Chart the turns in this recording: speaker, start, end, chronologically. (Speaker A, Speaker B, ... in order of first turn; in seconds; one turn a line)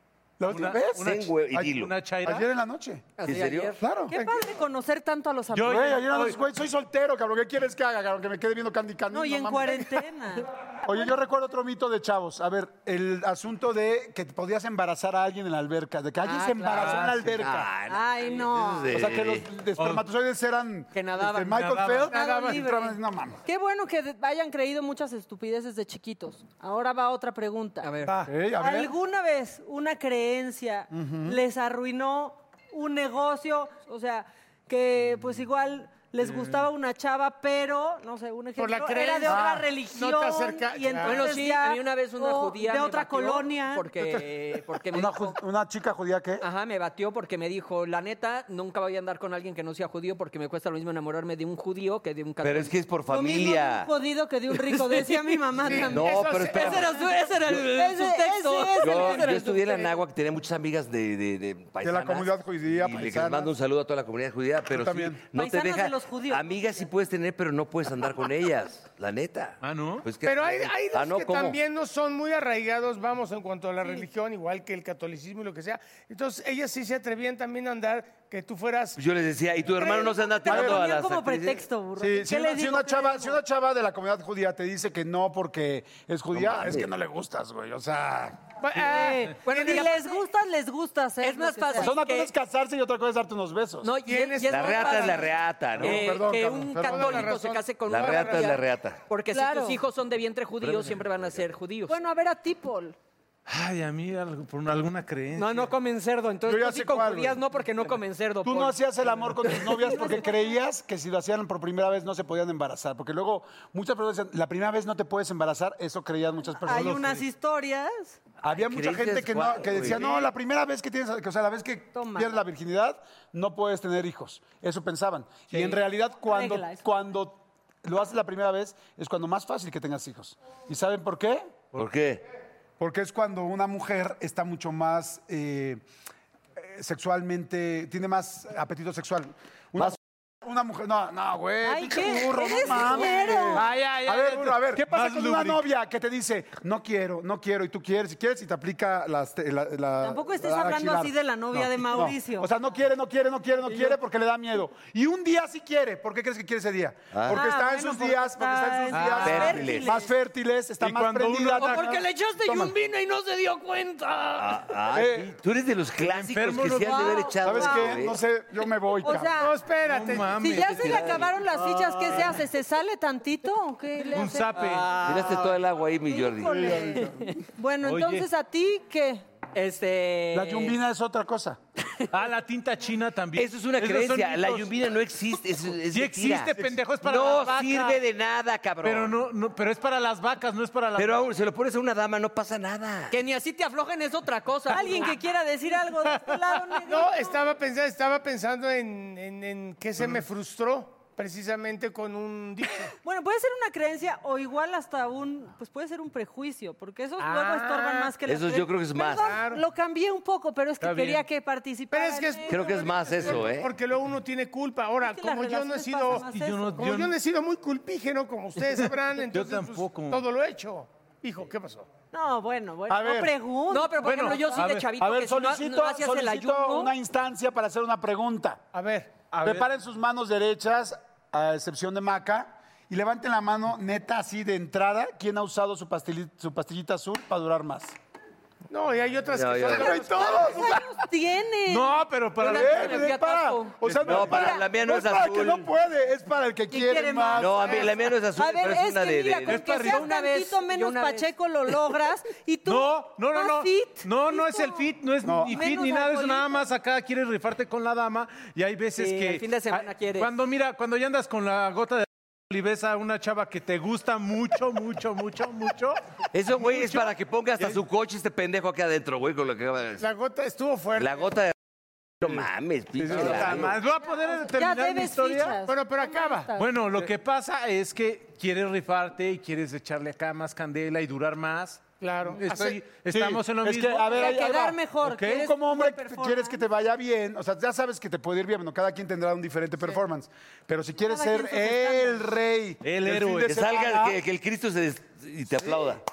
Speaker A: 0.4-3.2
Speaker B: 0.5-2.5
Speaker C: 1.0-1.9
Speaker D: 3.2-3.8
Speaker C: 3.2-3.8
Speaker A: 3.8-4.2
Speaker E: 4.1-6.3
Speaker B: 5.5-6.4
Speaker A: 5.6-10.1
Speaker E: 9.1-11.1
Speaker A: 10.8-17.7
Speaker D: 16.2-17.0
Speaker B: 16.7-17.3
Speaker C: 16.9-19.5
Speaker E: 17.9-18.9
Speaker A: 18.9-23.4
Speaker B: 19.8-20.1
Speaker D: 20.9-21.7
Speaker B: 21.4-22.6
Speaker E: 22.1-27.9
Speaker D: 27.8-28.2
Speaker A: 28.1-28.9
Speaker E: 28.6-44.0
Speaker A: 30.9-31.4
Speaker F: 38.6-41.3
Speaker A: 39.3-39.7
Speaker D: 41.0-45.4
Speaker A: 44.9-46.5
Speaker D: 46.4-52.7
Speaker C: 52.4-53.9
Speaker E: 53.1-59.8
Speaker D: 54.7-59.9
Speaker F: 55.6-57.0
Speaker C: 55.8-56.9
Speaker C: 58.8-71.6
Speaker A: 61.8-63.5
Speaker A: 64.7-65.2
Speaker E: 65.3-66.9
Speaker B: 69.6-70.1
Speaker F: 70.2-79.0
Speaker C: 79.0-81.6
Speaker E: 79.8-83.4
Speaker A: 80.5-80.8
Speaker A: 82.0-88.5
Speaker C: 86.3-86.9
Speaker F: 88.6-90.0
Speaker E: 88.7-91.9
Speaker D: 89.4-90.2
Speaker D: 91.2-92.3
Speaker A: 91.8-93.9
Speaker D: 93.8-102.0
Speaker F: 94.0-95.3
Speaker C: 94.5-96.1
Speaker A: 95.8-97.3
Speaker F: 96.8-98.6
Speaker C: 97.9-99.0
Speaker E: 99.3-99.8
Speaker C: 100.6-101.5
Speaker E: 101.9-103.0
Speaker B: 103.5-105.7
Speaker D: 105.3-110.0
Speaker A: 106.5-107.4
Speaker A: 108.4-117.3
Speaker E: 109.8-110.5
Speaker E: 116.6-118.2
Speaker A: 118.4-131.6
Speaker C: 118.5-120.0
Speaker E: 121.9-122.4
Speaker E: 125.5-126.9
Speaker C: 131.8-132.2
Speaker A: 132.8-135.8
Speaker A: 136.6-162.7
Speaker E: 141.6-143.7
Speaker B: 142.7-145.7
Speaker E: 150.0-152.5
Speaker C: 157.1-157.4
Speaker E: 157.3-160.1
Speaker B: 158.9-159.6
Speaker C: 159.2-159.9
Speaker B: 160.8-162.0
Speaker D: 161.6-164.2
Speaker C: 164.3-168.2
Speaker A: 164.9-165.3
Speaker B: 166.0-167.4
Speaker E: 166.8-168.0
Speaker A: 167.4-169.4
Speaker E: 169.0-169.6
Speaker F: 169.4-170.9
Speaker B: 169.8-171.3
Speaker E: 170.4-175.0
Speaker C: 170.8-171.3
Speaker B: 174.1-175.1
Speaker D: 174.6-175.5
Speaker C: 175.0-176.8
Speaker E: 176.1-179.2
Speaker A: 176.5-177.3
Speaker B: 177.8-178.3
Speaker D: 179.5-180.8
Speaker A: 180.3-181.6
Speaker B: 182.1-184.8
Speaker C: 183.4-189.2
Speaker B: 185.7-188.0
Speaker B: 188.8-191.3
Speaker C: 191.0-193.2
Speaker D: 193.1-195.1
Speaker E: 194.7-197.4
Speaker F: 196.8-202.9
Speaker E: 203.0-213.3
Speaker F: 207.2-208.2
Speaker C: 208.2-209.4
Speaker F: 209.1-209.6
Speaker B: 210.8-211.2
Speaker F: 211.9-221.9
Speaker C: 212.5-213.7
Speaker E: 215.0-216.8
Speaker B: 216.1-217.2
Speaker B: 218.8-220.2
Speaker E: 222.1-224.7
Speaker A: 222.9-223.3
Speaker D: 223.7-226.9
Speaker B: 224.0-224.9
Speaker A: 225.0-228.6
Speaker F: 228.7-229.2
Speaker B: 229.3-229.7
Speaker A: 229.4-237.9
Speaker F: 238.7-240.7
Speaker C: 239.3-240.0
Speaker A: 239.7-240.8
Speaker E: 239.7-242.0
Speaker B: 241.7-243.1
Speaker A: 242.4-247.9
Speaker D: 242.4-243.8
Speaker E: 242.7-243.7
Speaker C: 243.9-245.7
Speaker E: 244.2-244.6
Speaker E: 246.7-254.9
Speaker C: 247.4-249.6
Speaker B: 249.5-250.1
Speaker D: 249.8-251.3
Speaker B: 252.7-267.8
Speaker A: 255.2-255.6
Speaker E: 255.5-256.7
Speaker D: 259.0-260.3
Speaker C: 266.3-270.1
Speaker F: 270.0-271.2
Speaker C: 271.0-271.6
Speaker C: 272.2-273.8
Speaker B: 273.0-275.6
Speaker E: 274.0-276.7
Speaker F: 275.7-276.6
Speaker B: 276.6-281.8
Speaker F: 282.0-282.8
Speaker B: 282.3-284.3
Speaker A: 282.4-294.2
Speaker E: 284.1-286.6
Speaker E: 291.1-292.3
Speaker B: 292.8-293.6
Speaker C: 293.5-296.0